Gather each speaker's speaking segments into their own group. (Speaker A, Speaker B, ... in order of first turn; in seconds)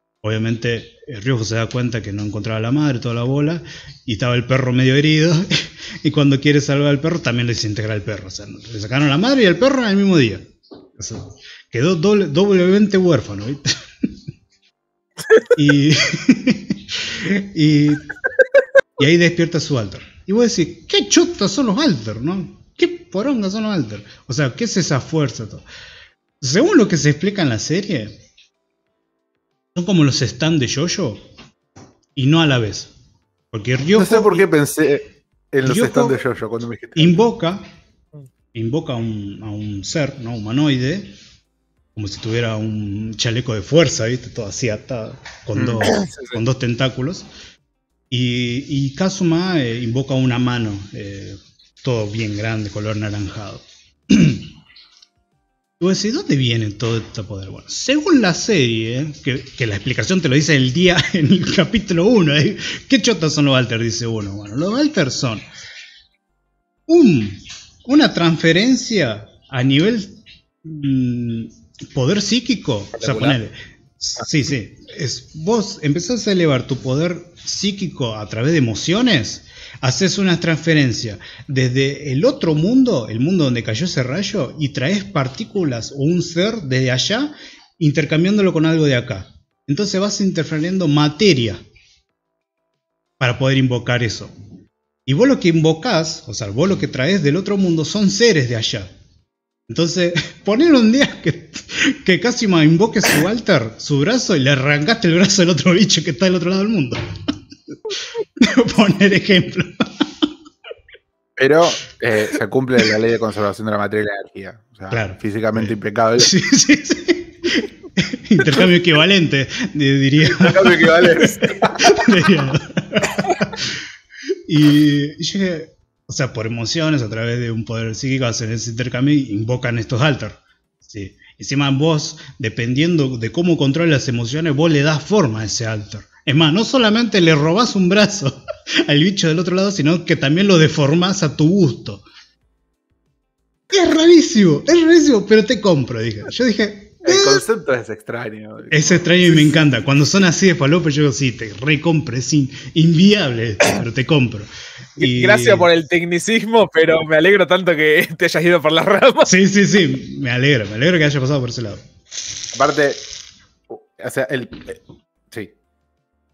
Speaker A: 0.2-14.1, 15.5-18.1, 19.0-25.6, 26.4-28.2, 29.7-31.2, 32.1-32.9, 33.5-34.5, 35.6-36.2, 37.0-37.7, 38.5-41.1, 41.9-47.2, 48.1-54.5, 55.8-65.4, 66.9-91.6, 93.2-94.3, 95.0-98.9, 99.7-107.1, 108.4-110.1, 114.9-123.7, 124.5-142.0, 143.7-147.4, 148.7-155.7, 159.2-161.8
Speaker B: 34.0-37.2, 45.5-45.9, 111.4-116.3, 120.3-122.0, 147.0-149.6, 162.5-163.0, 163.7-165.5
Speaker C: 46.0-46.3, 73.0-73.3, 155.0-159.3